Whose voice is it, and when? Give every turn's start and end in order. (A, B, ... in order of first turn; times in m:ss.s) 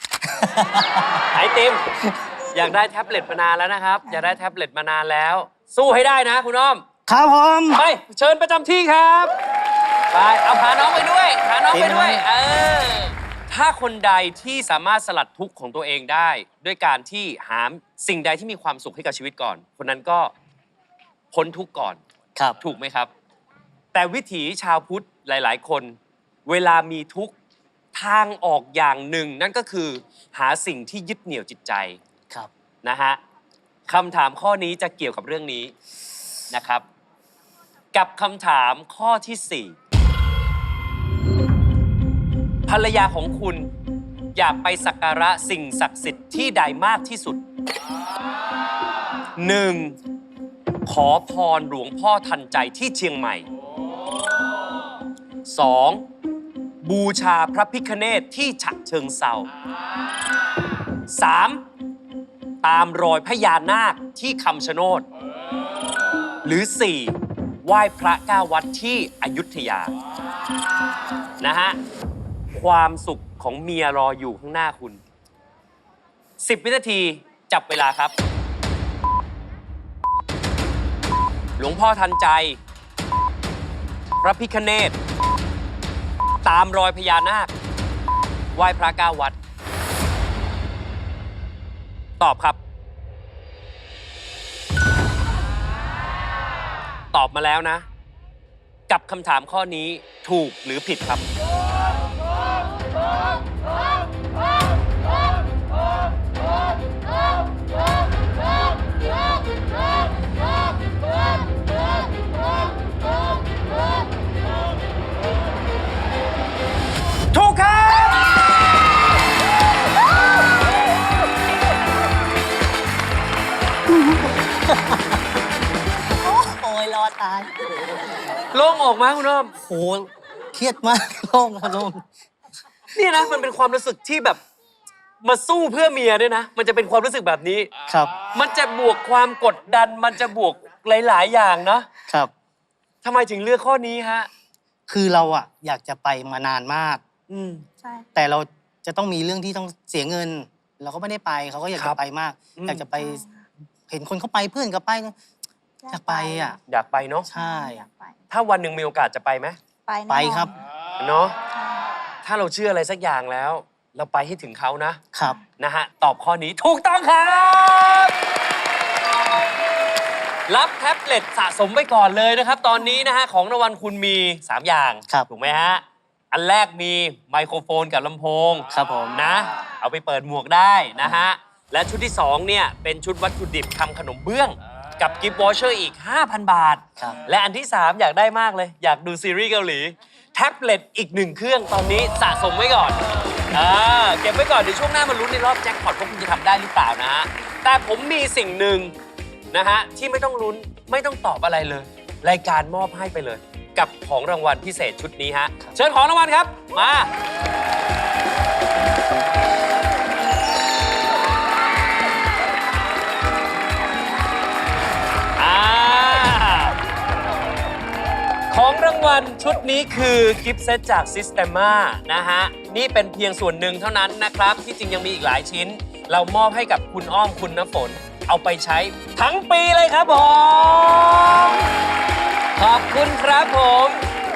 0:00.2-0:01.2 A
0:01.3-0:01.8 B
0:02.5-0:06.8 B
0:07.1-0:07.8 A
0:07.7-0:09.3 B
0:10.1-0:20.3 B
0:11.7-0:12.2 A
0:21.3-0:22.0 B
0:22.6-0:23.1 B
0:23.9-0:27.3 B
0:27.9-0:32.0 B
0:32.8-0:33.2 B
0:33.9-0:35.7 B
0:36.5-0:36.8 B
0:37.9-0:39.7 B
0:42.7-0:43.7 B
0:44.3-0:47.4 B
0:49.4-0:50.0 B
0:50.8-0:53.4 B
0:55.4-0:56.0 B
0:56.8-0:59.5 B
1:01.1-1:01.6 B
1:02.6-1:05.0 B
1:06.4-1:09.9 B
1:11.4-1:11.8 B
1:12.5-1:15.0 B
1:16.4-1:18.1 B
1:21.6-1:22.6 B
1:24.2-1:25.0 B
1:26.4-1:27.5 B
1:28.5-1:29.4 B
1:32.2-1:32.6 B
1:37.1-1:37.8 B
1:38.9-1:41.2 B
1:57.3-1:58.3 B
2:03.9-2:05.2 A
2:06.2-2:07.5 A
2:08.5-2:09.5 B
2:09.6-2:12.0 A
2:12.9-2:14.4 B
2:15.2-2:17.7 B
2:17.9-2:18.2 A
2:18.3-2:21.9 B
2:23.0-2:24.3 B
2:24.9-2:27.0 A
2:27.3-2:27.6 B
2:27.8-2:28.1 C
2:28.1-2:33.2 A
2:32.6-2:32.8 B
2:32.9-2:33.4 C
2:33.9-2:35.1 A
2:35.8-2:36.6 C
2:35.9-2:36.6 A
2:36.7-2:37.3 B
2:37.2-2:37.8 A
2:37.3-2:38.2 C
2:38.3-2:39.6 B
2:39.8-2:40.6 C
2:40.1-2:40.5 A
2:41.0-2:41.3 B
2:41.5-2:41.8 C
2:42.2-2:45.0 B
2:45.1-2:45.4 A
2:45.6-2:48.2 B
2:50.5-3:13.0 B
2:58.7-2:59.2 A
3:13.5-3:18.9 B
3:19.5-3:27.1 B
3:35.4-3:36.8 B
3:38.5-3:51.6 B
3:52.6-3:54.0 B